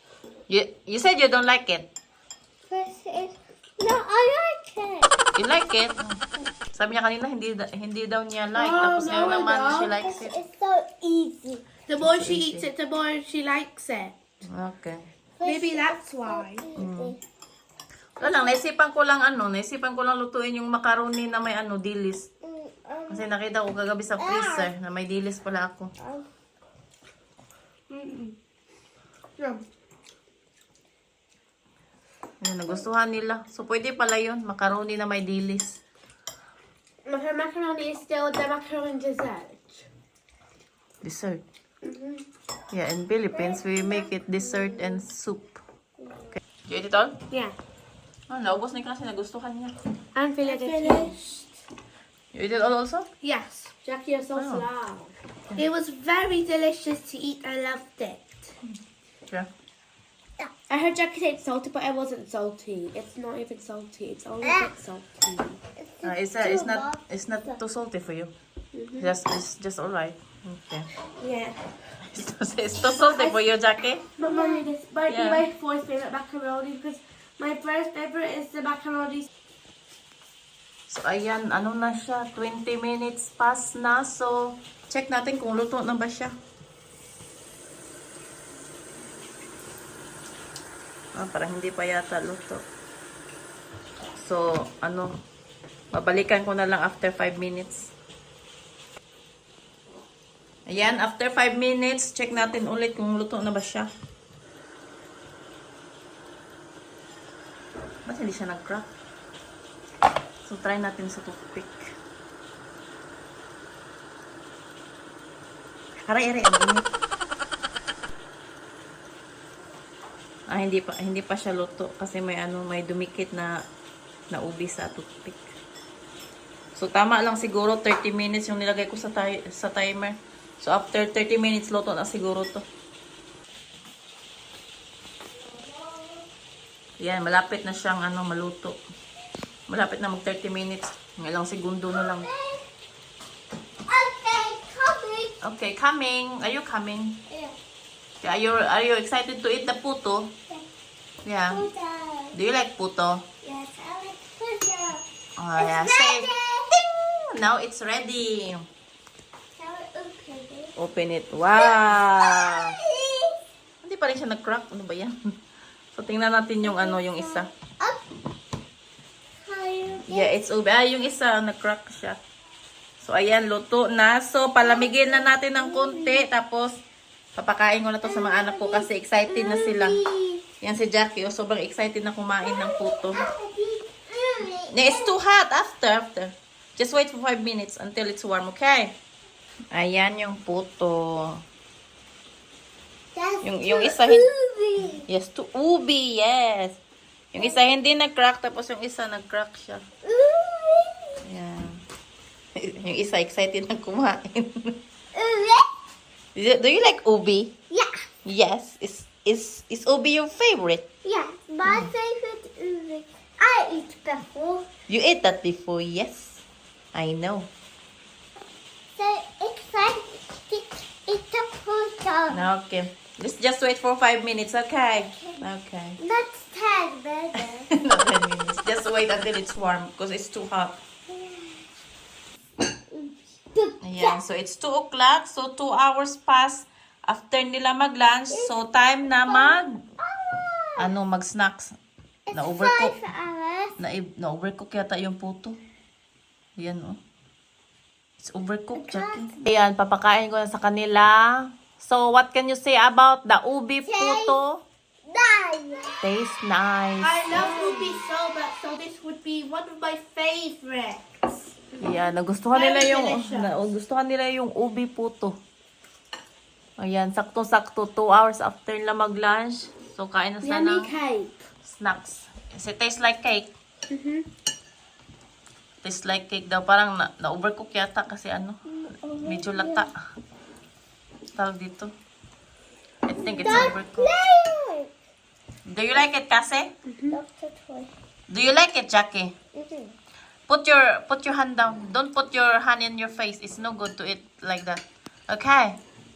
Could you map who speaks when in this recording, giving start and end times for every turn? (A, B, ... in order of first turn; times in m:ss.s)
0:00.5-0:01.9 A
0:02.7-0:05.1 B
0:05.4-0:06.2 A
0:06.7-0:10.4 A
0:08.6-0:09.9 C
0:10.0-0:11.6 B
0:11.9-0:14.2 C
0:12.0-0:12.7 A
0:14.4-0:15.0 A
0:15.4-0:17.2 B
0:15.4-0:16.7 C
0:16.8-0:17.1 A
0:18.2-0:22.3 A
0:18.2-0:18.6 B
0:22.4-0:23.3 B
0:23.1-0:25.9 A
0:24.2-0:24.7 B
0:26.0-0:26.2 B
0:27.9-0:28.4 C
0:29.4-0:29.6 C
0:32.4-0:35.8 A
0:37.1-0:39.9 C
0:41.0-0:41.4 A
0:41.8-0:42.2 C
0:42.7-0:45.6 A
0:43.3-0:45.0 B
0:46.0-0:46.4 B
0:46.6-0:47.2 A
0:47.3-0:47.6 C
0:48.3-0:49.8 A
0:50.2-0:51.5 C
0:50.4-0:51.1 B
0:52.3-0:53.1 A
0:53.2-0:58.5 C
0:54.4-0:54.7 A
1:00.7-1:05.6 C
1:04.4-1:04.7 B
1:05.8-1:07.6 B
1:06.0-1:08.3 A
1:08.7-1:09.1 C
1:09.0-1:10.9 A
1:11.2-1:11.6 C
1:12.0-1:14.0 A
1:13.0-1:13.4 C
1:14.2-1:19.3 C
1:14.3-1:14.7 B
1:15.1-1:15.4 A
1:20.9-1:26.3 A
1:31.2-1:32.6 A
1:34.2-1:35.1 A
1:35.9-1:37.9 A
1:40.7-1:43.9 A
1:48.1-1:48.9 A
1:50.4-1:51.8 A
1:56.1-1:56.9 A
2:00.5-2:03.5 A
2:04.3-2:05.5 A
2:06.8-2:12.6 A
2:15.4-2:16.3 B
2:17.0-2:18.8 A
2:19.7-2:22.3 A
2:21.9-2:22.6 B
2:23.9-2:25.3 B
2:25.4-2:27.2 A
2:27.3-2:27.6 B
2:28.2-2:30.3 A
2:31.2-2:31.7 A
2:31.5-2:32.4 B
2:32.3-2:33.2 A
2:33.4-2:35.0 B
2:35.4-2:36.3 A
2:35.6-2:36.8 B
2:37.0-2:38.6 A
2:39.6-2:40.7 B
2:40.8-2:42.7 A
2:41.5-2:43.4 B
2:43.8-2:45.2 A
2:45.9-2:47.5 A
2:46.6-2:48.0 B
2:49.4-2:50.3 B
2:50.1-2:52.2 A
2:53.0-2:56.7 A
2:54.6-2:56.3 B
2:57.4-3:00.0 A
2:58.0-3:00.4 B
3:00.6-3:03.3 A
3:02.4-3:05.1 B
3:04.7-3:09.0 A
3:09.7-3:11.4 A
3:13.2-3:15.0 B
3:13.4-3:14.3 A
3:15.0-3:16.8 A
3:17.3-3:19.8 A
3:17.4-3:17.7 B
3:20.0-3:21.2 B
3:21.2-3:21.8 A
3:22.6-3:24.7 A
3:25.1-3:25.7 B
3:26.4-3:27.5 A
3:27.7-3:28.0 B
3:28.2-3:30.8 A
3:31.0-3:34.7 B
3:34.9-3:36.4 A
3:36.9-3:37.5 A
3:39.0-3:42.4 B
3:42.3-3:46.0 A
3:45.0-3:45.4 B
3:46.0-3:47.7 B
3:47.7-3:50.8 A
3:51.1-3:51.7 B
3:52.9-3:54.2 B
3:53.8-3:59.7 A
3:59.1-4:00.9 B
4:00.8-4:01.8 A
4:02.3-4:03.8 B
4:02.3-4:03.0 A
4:03.8-4:05.6 A
4:06.6-4:07.0 A
4:08.2-4:14.6 A
4:08.8-4:09.4 B
4:13.8-4:14.4 B
4:15.0-4:16.0 B
4:16.0-4:17.2 A
4:17.0-4:21.8 C
4:17.3-4:18.0 B
4:21.8-4:25.4 A
4:22.5-4:23.7 C
4:26.8-4:30.9 A
4:30.4-4:31.4 C
4:31.6-4:33.5 A
4:33.9-4:34.3 C
4:35.8-4:38.6 A
4:38.7-4:39.9 B
4:39.2-4:39.9 A
4:41.4-4:41.9 A
4:43.0-4:44.1 A
4:43.2-4:44.9 B
4:45.7-4:46.7 A
4:46.9-4:47.2 C
4:47.1-4:47.9 B
4:48.3-4:49.3 A
4:49.6-4:50.0 B
4:50.5-4:55.8 A